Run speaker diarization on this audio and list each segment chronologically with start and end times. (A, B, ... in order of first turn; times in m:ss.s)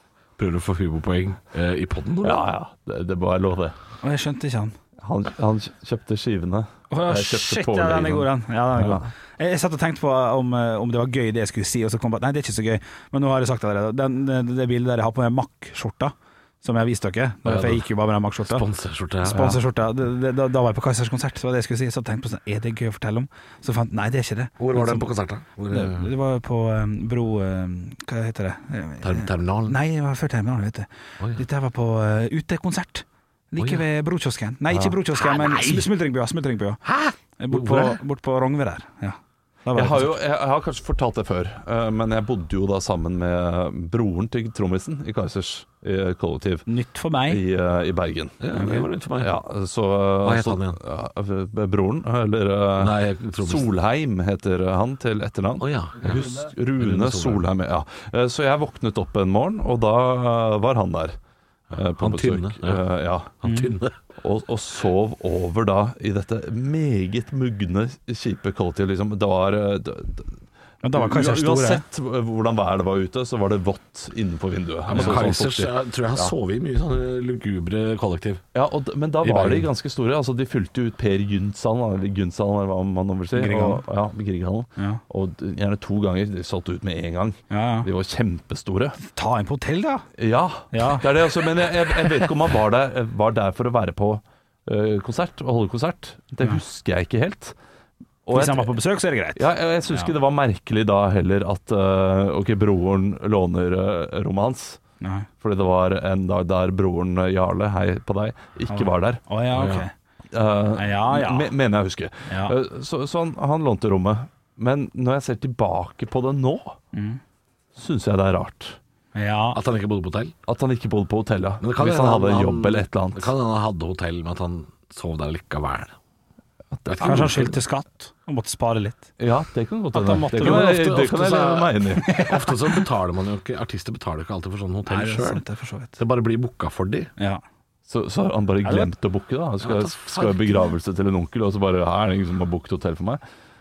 0:00.4-0:02.4 A
0:02.2-0:03.7 B
0:04.0-0:04.7 C
0:05.0-0:09.0 B
0:06.9-0:18.6 C
0:17.4-0:17.8 A
0:18.4-0:19.6 A
0:19.2-0:25.0 C
0:19.3-0:19.6 B
0:24.6-0:26.1 A
0:25.7-0:36.8 C
0:29.0-0:29.8 A
0:33.6-0:33.8 A
0:34.7-0:35.0 B
0:35.1-0:35.9 A
0:36.8-0:38.0 A
0:37.4-0:40.2 C
0:39.7-0:46.6 B
0:46.7-0:47.4 C
0:47.3-0:48.5 B
0:48.4-0:49.4 A
0:48.5-0:48.8 C
0:49.1-1:01.2 B
0:50.2-0:50.8 A
0:52.8-0:53.7 A
0:55.6-0:57.5 A
1:01.7-1:02.8 A
1:01.7-1:03.3 B
1:03.4-1:04.0 A
1:03.4-1:03.7 C
1:04.2-1:10.3 B
1:10.8-1:11.8 C
1:10.9-1:16.3 B
1:14.9-1:18.4 A
1:14.9-1:15.2 C
1:18.5-1:29.0 B
1:19.2-1:19.7 A
1:23.4-1:23.8 C
1:27.5-1:27.9 C
1:29.0-1:30.0 C
1:30.2-1:37.5 B
1:30.7-1:31.0 C
1:38.2-1:38.7 B
1:38.3-1:40.1 C
1:39.4-1:44.8 B
1:45.0-1:45.3 C
1:45.4-1:49.2 B
1:48.7-1:49.9 C
1:49.5-1:49.8 A
1:50.3-1:56.8 B
1:50.7-1:51.5 C
1:52.3-1:52.5 C
1:56.9-1:57.2 C
1:57.8-1:58.8 B
1:59.1-1:59.6 C
1:59.5-2:00.3 A
2:00.5-2:03.3 B
2:01.6-2:05.9 A
2:06.7-2:07.5 B
2:06.9-2:07.6 A
2:07.0-2:09.1 C
2:09.2-2:12.2 B
2:09.9-2:10.8 C
2:10.3-2:15.4 A
2:12.0-2:12.8 C
2:14.8-2:16.0 C
2:16.0-2:17.1 A
2:17.2-2:17.4 C
2:17.9-2:23.2 B
2:18.6-2:18.9 C
2:19.6-2:20.7 A